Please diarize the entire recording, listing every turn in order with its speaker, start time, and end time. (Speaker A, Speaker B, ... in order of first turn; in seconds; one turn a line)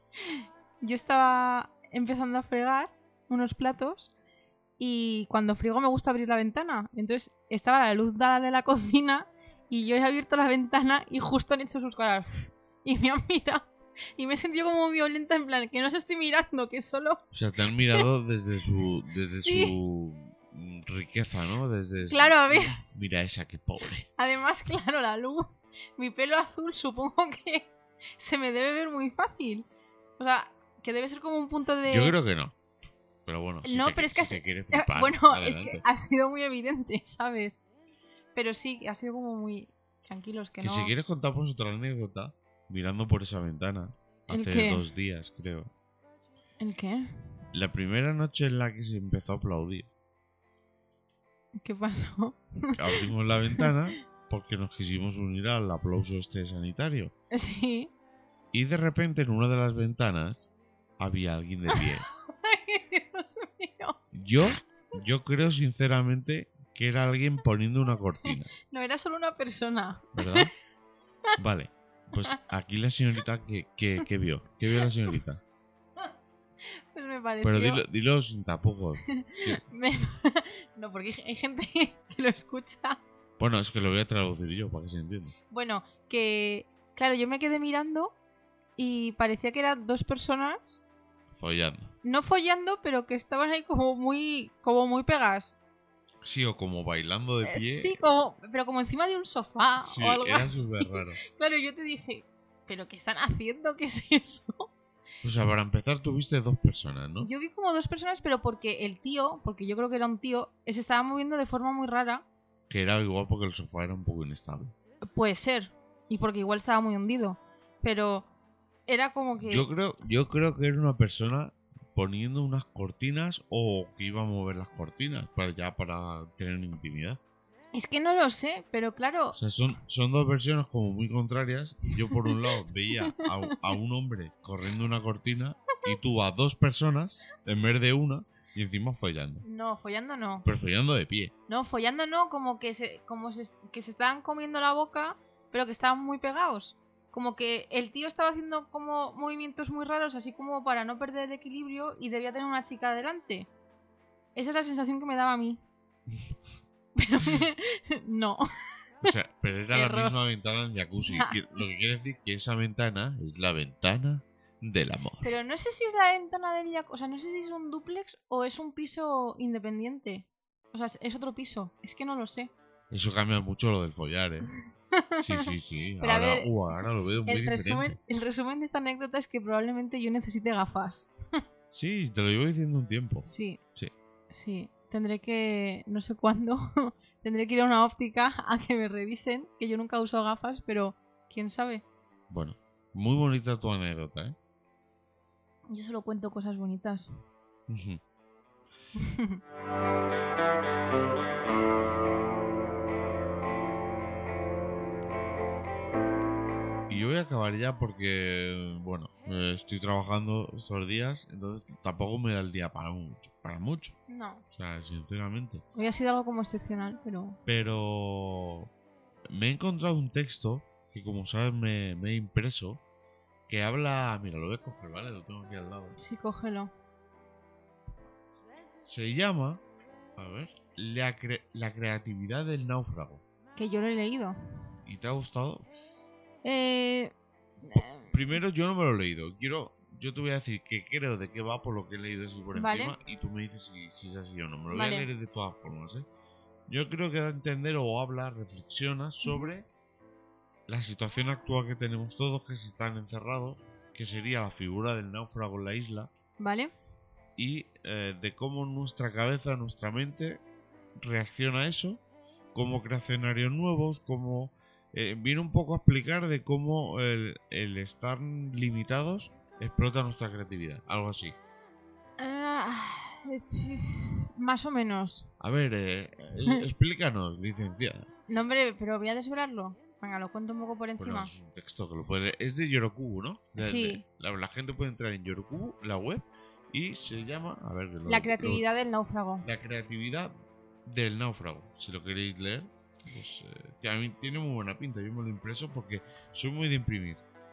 Speaker A: 0.2-4.1
Speaker A: 4.8-17.2
Speaker B: 17.3-24.1
Speaker A: 19.3-19.8
Speaker A: 22.0-22.8
Speaker A: 24.2-29.7
Speaker A: 30.2-32.1
Speaker B: 31.9-32.5
Speaker B: 33.2-35.8
Speaker A: 33.6-37.6
Speaker A: 38.3-40.9
Speaker B: 40.6-45.7
Speaker A: 44.3-44.8
Speaker A: 46.6-47.1
Speaker B: 47.5-49.9
Speaker A: 51.6-53.7
Speaker B: 52.8-57.1
Speaker A: 57.3-57.9
Speaker B: 58.5-60.5
Speaker B: 61.0-62.0
Speaker A: 61.7-64.0
Speaker B: 64.1-68.5
Speaker A: 68.3-70.5
Speaker B: 70.1-70.5
Speaker B: 71.4-75.4
Speaker A: 76.9-77.8
Speaker B: 77.4-79.6
Speaker A: 79.1-83.0
Speaker B: 83.4-85.3
Speaker A: 85.5-88.1
Speaker A: 88.8-90.8
Speaker B: 91.4-91.9
Speaker A: 92.0-95.6
Speaker B: 96.2-98.0
Speaker A: 97.4-104.7
Speaker B: 99.8-101.2
Speaker B: 105.2-107.3
Speaker A: 107.2-112.2
Speaker B: 112.7-114.7
Speaker A: 115.1-118.3
Speaker A: 118.9-119.7
Speaker B: 119.4-127.2
Speaker A: 127.7-129.4
Speaker B: 129.3-139.4
Speaker A: 132.0-133.6
Speaker A: 139.4-140.4
Speaker B: 140.4-141.3
Speaker A: 141.5-153.5
Speaker A: 154.3-155.6
Speaker A: 156.9-158.4
Speaker B: 159.0-165.3
Speaker A: 159.7-160.2
Speaker A: 161.0-161.4
Speaker A: 165.2-172.5
Speaker B: 172.9-174.5
Speaker A: 174.9-176.5
Speaker B: 175.2-177.9
Speaker A: 177.2-181.1
Speaker B: 181.7-183.9
Speaker A: 183.2-183.6
Speaker A: 184.3-191.8
Speaker B: 192.3-194.3
Speaker A: 195.7-197.2
Speaker B: 197.7-198.0
Speaker A: 198.9-199.4
Speaker B: 206.9-214.0
Speaker A: 214.1-214.4
Speaker B: 214.5-215.6
Speaker A: 215.8-217.4
Speaker B: 217.4-218.7
Speaker B: 219.3-222.8
Speaker B: 223.5-226.0
Speaker A: 226.0-226.7
Speaker B: 228.8-229.6
Speaker B: 230.2-233.2
Speaker A: 233.6-234.3
Speaker B: 234.8-235.7
Speaker A: 236.4-238.4
Speaker B: 237.7-246.1
Speaker A: 242.5-243.0
Speaker A: 244.7-245.1
Speaker B: 246.7-249.7
Speaker A: 249.2-249.5
Speaker B: 250.7-256.1
Speaker A: 256.4-256.7
Speaker B: 257.4-260.4
Speaker B: 261.0-262.0
Speaker B: 262.5-271.4
Speaker A: 272.2-275.3
Speaker B: 275.4-278.1
Speaker A: 278.3-281.3
Speaker B: 281.0-288.6
Speaker A: 283.6-284.0
Speaker A: 288.1-289.4
Speaker B: 289.4-290.3
Speaker B: 290.8-297.2